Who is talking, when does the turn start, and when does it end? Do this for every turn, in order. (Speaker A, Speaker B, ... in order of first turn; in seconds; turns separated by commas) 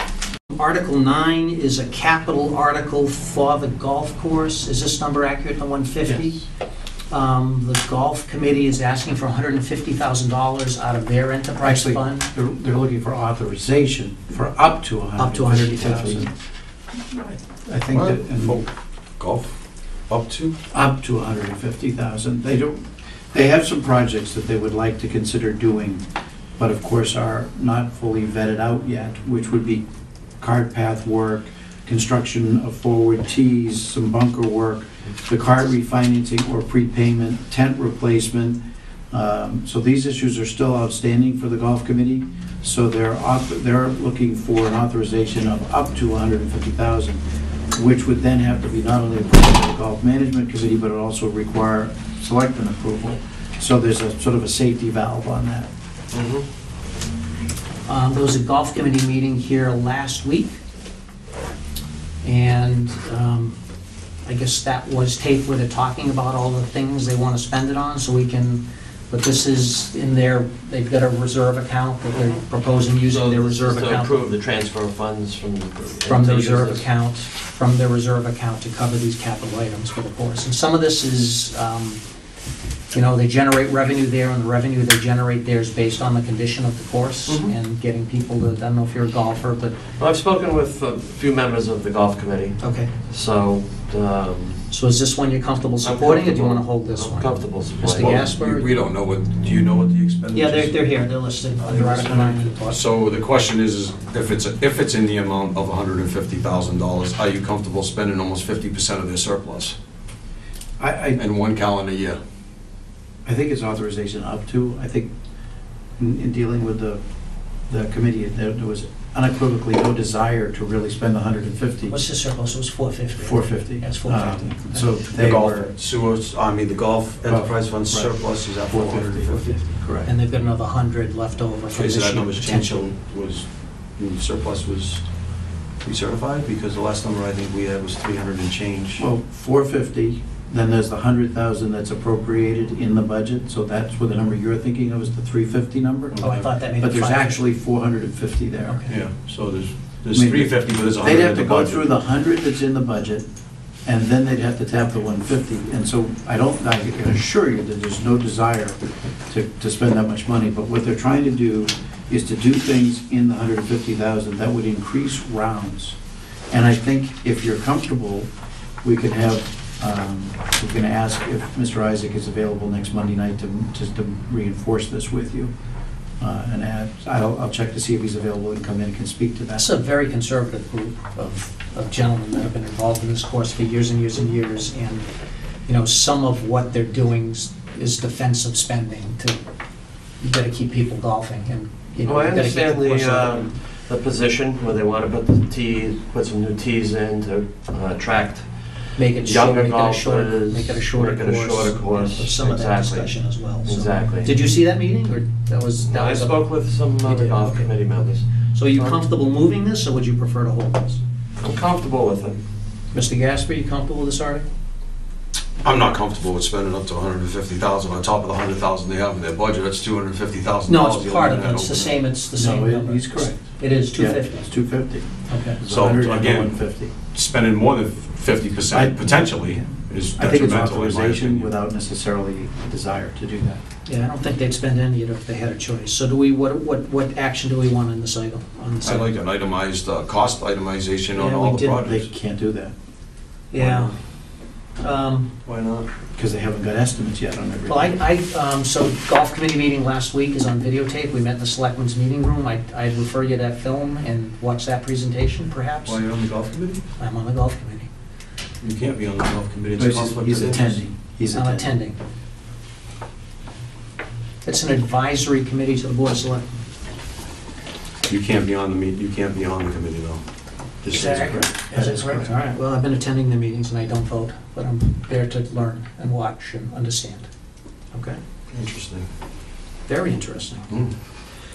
Speaker A: 0.5-6.5, Speaker A: 7.1-12.3, Speaker B: 11.6-16.3, Speaker A: 15.2-16.3, Speaker B: 17.1-18.6, Speaker C: 17.9-18.7, Speaker C: 19.2-19.6, Speaker C: 20.1-20.6, Speaker B: 20.7-26.0, Speaker B: 26.6-29.8, Speaker B: 30.4-38.6, Speaker B: 39.1-47.2, Speaker B: 47.7-55.7, Speaker D: 56.1-56.5, Speaker A: 57.9-60.6, Speaker A: 62.2-63.5, Speaker A: 64.2-74.2, Speaker D: 73.0-76.9, Speaker A: 76.0-82.0, Speaker A: 82.9-89.8, Speaker D: 87.3-87.5, Speaker D: 90.0-94.7, Speaker A: 92.6-93.0, Speaker A: 94.7-98.7, Speaker D: 95.8-98.3, Speaker C: 97.9-100.8, Speaker A: 100.3-102.8, Speaker C: 101.6-109.8, Speaker B: 110.8-111.2, Speaker C: 111.2-112.2, Speaker B: 113.2-115.1, Speaker B: 116.0-117.0, Speaker B: 117.7-122.0, Speaker A: 121.9-125.0, Speaker B: 123.2-125.7, Speaker C: 125.2-129.6, Speaker B: 127.2-130.1, Speaker A: 130.0-132.8, Speaker C: 131.7-135.1, Speaker C: 135.8-139.0, Speaker B: 139.0-148.8, Speaker C: 146.1-146.5, Speaker A: 146.2-147.4, Speaker A: 148.7-149.0, Speaker C: 148.9-151.9, Speaker B: 150.1-153.2, Speaker B: 153.8-166.0, Speaker B: 166.5-168.3, Speaker B: 168.8-175.5, Speaker B: 176.2-179.6, Speaker A: 179.6-185.1, Speaker A: 185.7-189.4, Speaker A: 190.2-193.5, Speaker D: 192.0-204.4, Speaker A: 198.9-207.7, Speaker D: 205.8-208.3, Speaker A: 208.5-211.0, Speaker D: 208.8-209.0, Speaker D: 211.4-212.4, Speaker A: 212.9-214.5, Speaker C: 215.6-222.0, Speaker A: 220.7-224.6, Speaker B: 222.3-226.9, Speaker A: 225.3-225.6, Speaker C: 225.7-231.5, Speaker B: 228.7-233.6, Speaker A: 233.9-239.1, Speaker C: 238.8-242.1, Speaker A: 241.2-241.8, Speaker B: 241.8-242.8, Speaker A: 243.5-243.9, Speaker C: 243.6-243.9, Speaker A: 244.8-245.3, Speaker C: 245.5-245.9, Speaker B: 246.2-248.0, Speaker A: 247.7-256.1, Speaker C: 255.9-256.8, Speaker A: 257.0-257.9, Speaker C: 258.6-260.8, Speaker B: 259.8-261.8, Speaker A: 261.3-262.0, Speaker A: 264.4-266.6, Speaker C: 268.1-270.2, Speaker C: 270.8-271.4, Speaker A: 270.9-277.3, Speaker B: 270.9-272.3, Speaker A: 277.9-278.2, Speaker C: 278.5-279.1, Speaker A: 279.9-280.7